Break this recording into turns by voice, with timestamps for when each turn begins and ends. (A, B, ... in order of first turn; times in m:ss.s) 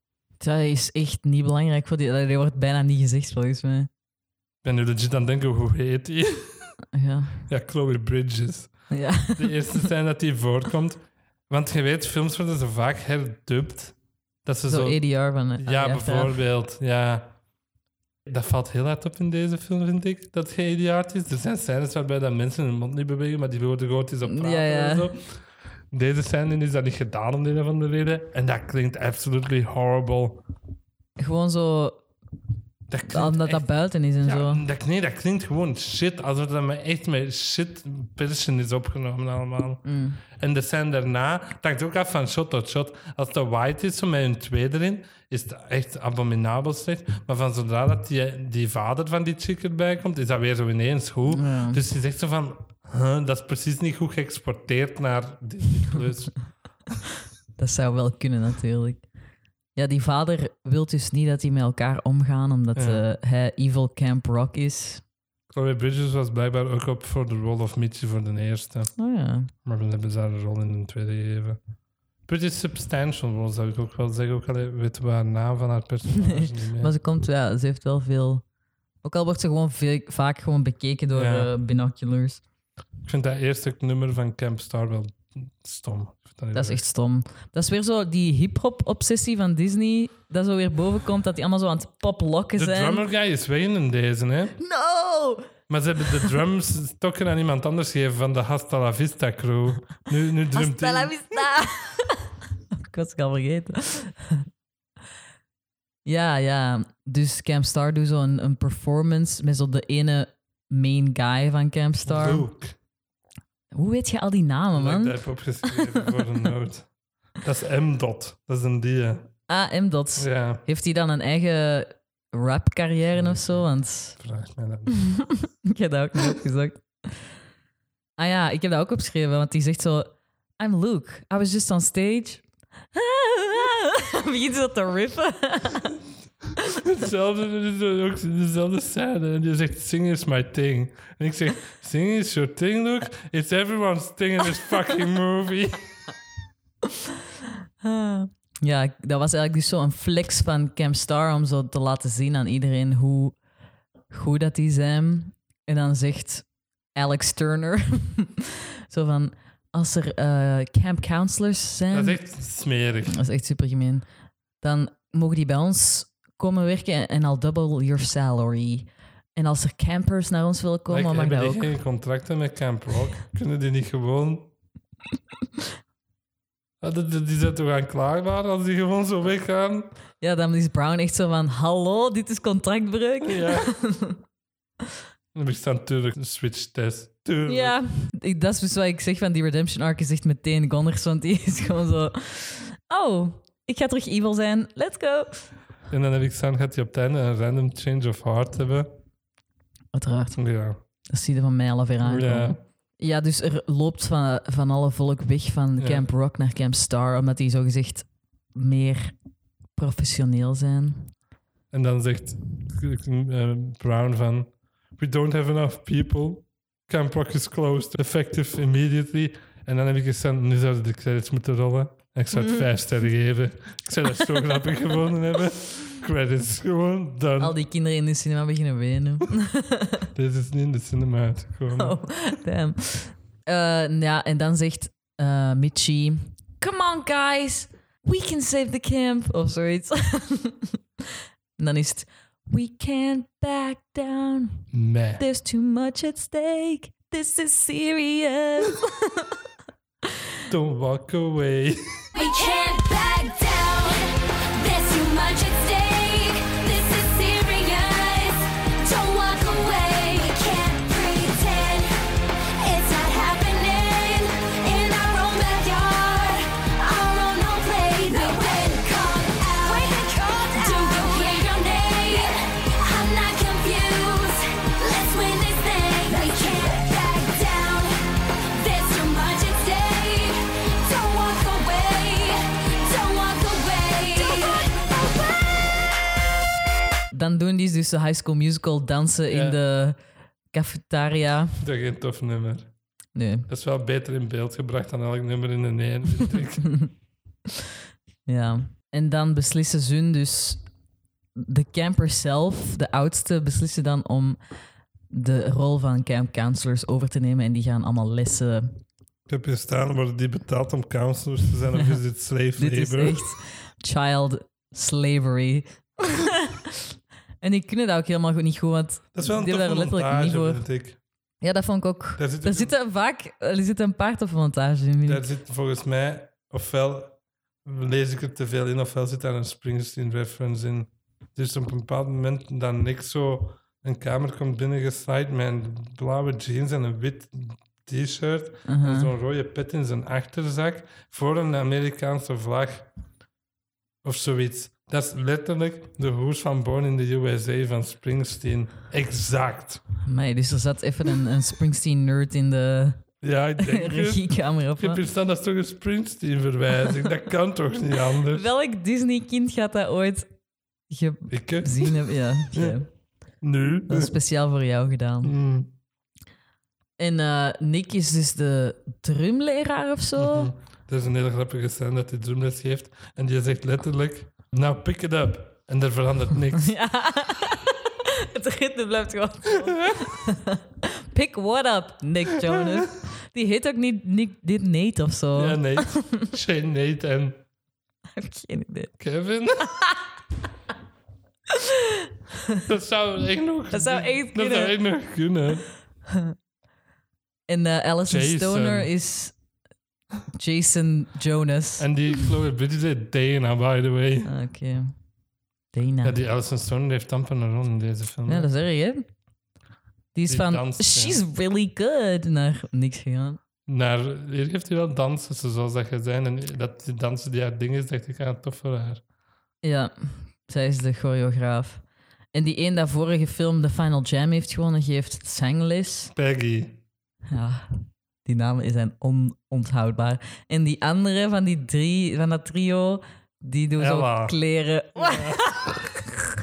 0:00.4-0:03.9 A
0:04.6-0:06.7 B
0:06.9-0:07.4 A
0:07.5-0:15.0 B
0:08.9-0:09.8 A
0:14.7-0:16.4 A
0:15.6-0:17.3 B
0:18.3-0:25.3 B
0:24.2-0:25.1 A
0:25.9-0:30.4 B
0:31.2-0:32.0 A
0:32.9-0:33.7 B
0:33.1-0:34.6 A
0:34.2-0:39.8 B
0:39.8-0:40.2 A
0:40.4-0:56.4 B
0:51.3-0:51.8 A
0:57.6-0:59.0 A
0:59.8-1:05.0 A
1:02.8-1:03.0 B
1:05.5-1:08.9 B
1:09.0-1:09.5 A
1:09.6-1:11.6 B
1:12.3-1:16.9 B
1:16.1-1:18.4 A
1:19.0-1:22.4 A
1:21.1-1:21.5 B
1:23.0-1:26.8 B
1:26.5-1:33.0 A
1:32.6-1:34.6 B
1:34.6-1:35.5 A
1:35.7-1:41.2 B
1:40.5-1:42.3 A
1:42.8-1:44.4 A
1:46.0-1:52.5 A
1:52.0-1:52.8 B
1:53.7-1:56.0 A
1:54.8-1:56.9 B
1:57.4-1:59.3 B
1:59.5-2:04.2 A
2:00.2-2:00.6 B
2:03.1-2:05.0 B
2:04.9-2:06.8 A
2:08.2-2:12.4 A
2:12.9-2:16.0 A
2:16.8-2:25.8 B
2:27.8-2:33.4 A
2:34.1-2:42.2 A
2:41.9-2:43.2 B
2:43.1-2:44.0 A
2:44.6-2:51.7 A
2:50.9-2:54.5 B
2:56.8-2:59.9 B
3:00.2-3:04.2 A
3:03.2-3:03.7 B
3:05.3-3:07.8 B
3:07.5-3:15.5 A
3:15.9-3:19.0 B
3:19.9-3:20.4 A
3:20.4-3:20.8 B
3:21.1-3:29.2 A
3:22.0-3:22.6 B
3:25.8-3:26.0 B
3:29.8-3:31.1 A
3:31.7-3:47.6 B
3:47.4-3:50.1 A
3:50.2-3:52.0 B
3:51.8-4:00.8 A
4:01.6-4:09.3 A
4:04.7-4:05.2 B
4:10.5-4:12.0 B
4:12.2-4:22.0 C
4:22.6-4:45.2 C
4:47.1-4:50.0 A
4:49.3-4:49.6 B
4:50.5-4:51.6 A
4:51.6-4:52.7 B
4:53.2-4:53.5 A
4:53.5-4:56.8 B
4:56.6-4:56.9 A
4:58.3-5:00.6 A
5:01.4-5:04.4 A
5:05.1-5:08.8 A
5:09.3-5:13.3 B
5:12.6-5:16.8 A
5:17.4-5:20.6 A
5:19.1-5:21.0 B
5:21.4-5:25.2 A
5:22.2-5:22.8 B
5:25.1-5:42.9 B
5:38.7-5:39.1 A
5:44.0-5:49.8 B
5:50.0-5:53.0 A
5:53.2-5:58.5 B
5:53.6-5:55.0 A
5:58.3-6:00.3 A
6:00.9-6:02.9 A
6:01.3-6:02.8 B
6:03.4-6:04.2 B
6:03.9-6:05.3 A
6:05.2-6:05.8 B
6:07.0-6:10.5 A
6:10.2-6:16.7 B
6:16.6-6:26.3 A
6:19.7-6:20.1 B
6:22.4-6:22.9 B
6:25.4-6:27.4 B
6:28.2-6:29.0 A
6:29.0-6:29.8 B
6:29.7-6:30.0 A
6:31.5-6:32.6 A
6:32.7-6:35.7 B
6:33.7-6:34.8 A
6:37.5-6:39.4 A
6:38.1-6:38.9 B
6:40.4-6:41.9 A
6:41.8-6:44.3 B
6:44.3-6:44.9 A
6:45.7-6:46.2 A
6:46.0-6:48.5 B
6:48.3-6:49.0 A
6:50.2-6:53.4 A
6:50.3-6:51.2 B
6:53.7-6:59.0 B
6:59.6-7:01.8 A
7:02.3-7:06.1 A
7:06.1-7:06.8 B
7:07.3-7:15.9 A
7:13.8-7:14.4 B
7:15.0-7:15.7 B